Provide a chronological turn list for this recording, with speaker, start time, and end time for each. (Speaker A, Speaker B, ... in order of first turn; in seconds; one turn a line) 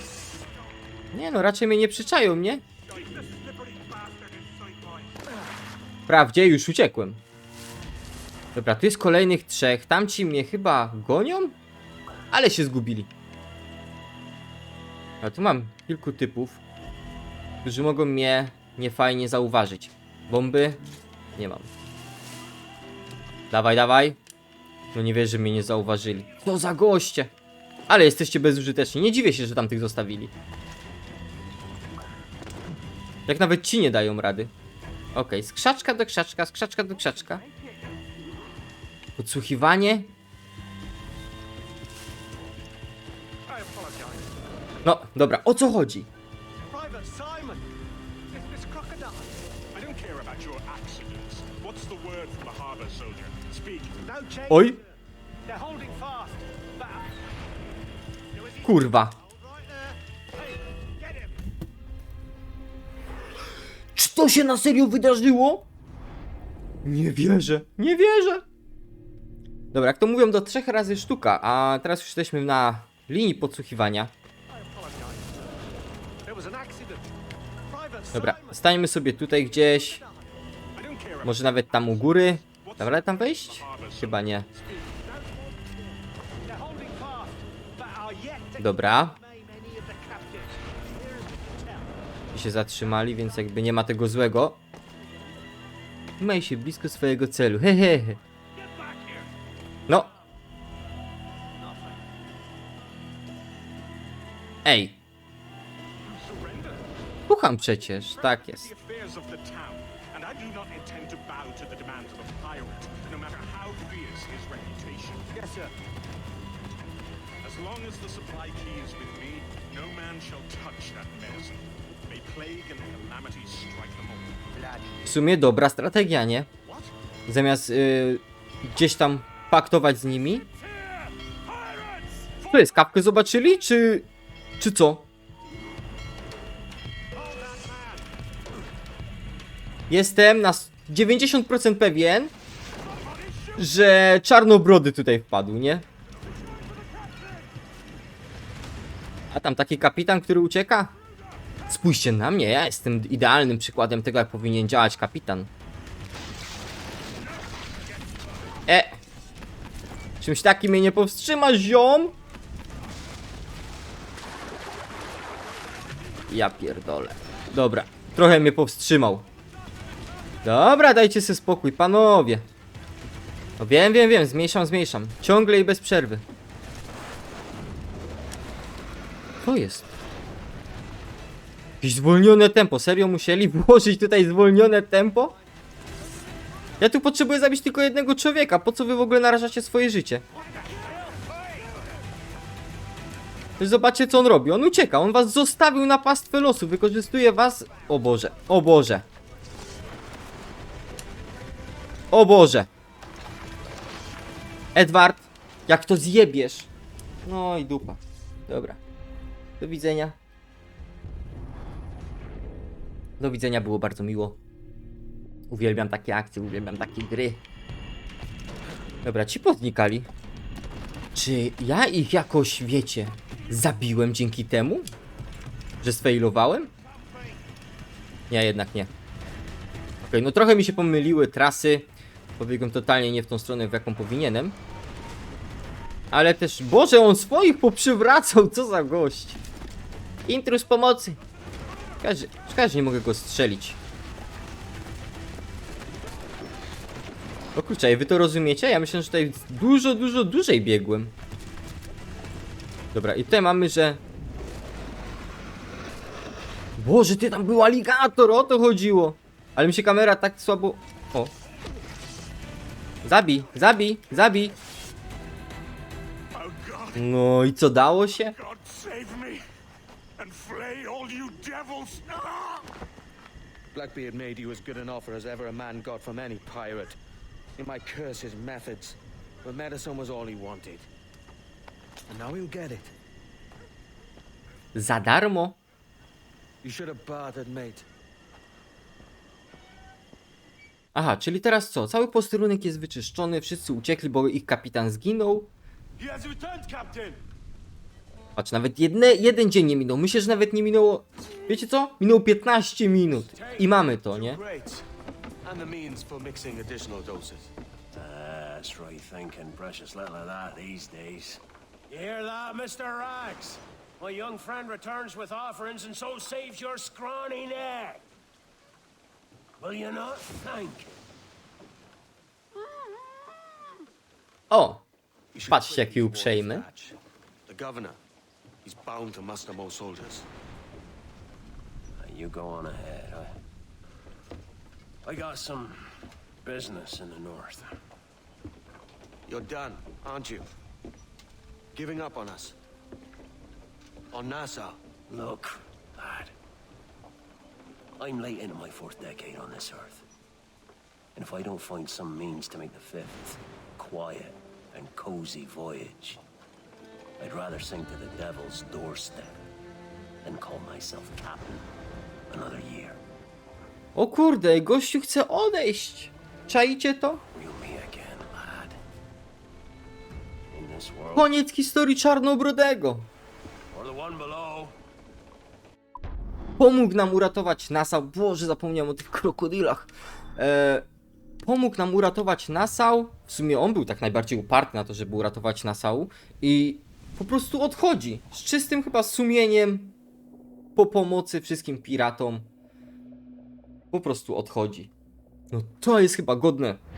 Speaker A: 1.1-2.6
Speaker B: 2.9-5.1
Speaker A: 6.1-7.2
Speaker A: 8.5-11.5
Speaker A: 12.3-13.1
Speaker A: 15.2-16.6
Speaker A: 17.6-20.8
Speaker A: 21.4-21.7
Speaker A: 23.5-24.2
Speaker A: 24.9-27.3
Speaker A: 27.9-30.3
Speaker A: 33.3-34.5
Speaker A: 35.1-37.4
Speaker C: 37.3-37.8
Speaker A: 39.2-40.1
Speaker C: 43.5-44.2
Speaker A: 44.8-46.1
Speaker C: 46.6-47.6
Speaker C: 48.3-49.3
Speaker B: 49.7-54.0
Speaker C: 54.0-54.9
Speaker A: 54.5-54.8
Speaker C: 55.4-57.2
Speaker C: 58.3-61.4
Speaker A: 58.6-59.1
Speaker A: 64.0-65.7
Speaker A: 66.8-68.4
Speaker A: 69.7-74.1
Speaker C: 74.5-75.5
Speaker C: 76.2-77.1
Speaker C: 77.7-78.7
Speaker A: 78.1-80.0
Speaker C: 79.3-80.2
Speaker B: 80.8-84.4
Speaker A: 81.2-84.5
Speaker C: 84.5-91.9
Speaker A: 88.6-89.2
Speaker A: 92.3-94.6
Speaker A: 96.2-98.2
Speaker C: 98.6-99.2
Speaker C: 101.6-102.0
Speaker A: 104.6-105.0
Speaker B: 106.1-106.8
Speaker A: 107.3-108.7
Speaker B: 108.1-115.2
Speaker C: 115.3-115.7
Speaker B: 117.4-124.4
Speaker C: 124.6-125.0
Speaker A: 125.0-126.5
Speaker A: 127.3-130.5
Speaker A: 132.5-134.1
Speaker A: 134.6-135.1
Speaker C: 137.2-138.0
Speaker A: 139.9-142.3
Speaker A: 143.6-145.8
Speaker C: 146.5-147.3
Speaker A: 149.3-150.9
Speaker A: 151.7-155.5
Speaker A: 158.7-159.0
Speaker A: 160.2-162.2
Speaker A: 166.3-169.2
Speaker A: 170.4-172.4
Speaker A: 173.6-176.2
Speaker A: 179.4-179.9
Speaker A: 181.8-185.3
Speaker A: 186.8-190.2
Speaker C: 190.6-191.5
Speaker A: 193.6-199.0
Speaker A: 202.1-202.7
Speaker A: 204.7-206.7
Speaker A: 207.2-208.8
Speaker A: 209.6-210.2
Speaker A: 213.2-214.4
Speaker A: 215.5-217.4
Speaker A: 219.0-220.1
Speaker A: 221.1-224.9
Speaker A: 225.8-226.7
Speaker A: 228.3-228.9
Speaker A: 230.0-234.6
Speaker A: 236.1-239.4
Speaker A: 240.2-241.2
Speaker A: 242.0-243.8
Speaker A: 247.5-251.1
Speaker A: 252.9-254.0
Speaker A: 256.8-261.3
Speaker A: 263.0-264.5
Speaker B: 266.3-266.9
Speaker A: 266.9-268.4
Speaker B: 268.4-269.3
Speaker D: 268.7-269.4
Speaker B: 270.2-272.0
Speaker D: 270.2-272.3
Speaker D: 273.7-277.0
Speaker D: 277.6-280.9
Speaker D: 282.1-282.9
Speaker A: 284.7-285.6
Speaker D: 286.6-287.9
Speaker A: 290.9-295.5
Speaker D: 296.0-297.2
Speaker A: 298.4-304.4
Speaker D: 303.3-304.8
Speaker D: 305.4-307.5
Speaker E: 307.9-318.0
Speaker E: 319.6-320.9
Speaker A: 324.5-324.8
Speaker D: 325.3-328.0
Speaker A: 325.5-326.6
Speaker D: 328.6-330.3
Speaker E: 332.0-333.3
Speaker E: 335.0-337.7
Speaker D: 339.3-340.5
Speaker D: 341.7-342.6
Speaker D: 344.1-344.8
Speaker E: 345.1-346.3
Speaker E: 348.0-350.0
Speaker E: 351.1-356.2
Speaker E: 357.2-359.4
Speaker E: 360.2-361.7
Speaker E: 362.3-363.0
Speaker A: 363.9-367.2
Speaker E: 367.3-368.8
Speaker E: 370.5-371.3
Speaker A: 371.1-373.1
Speaker E: 373.7-374.7
Speaker A: 376.6-380.8
Speaker A: 381.4-389.9
Speaker A: 390.8-392.5
Speaker A: 393.9-394.9
Speaker A: 395.5-396.8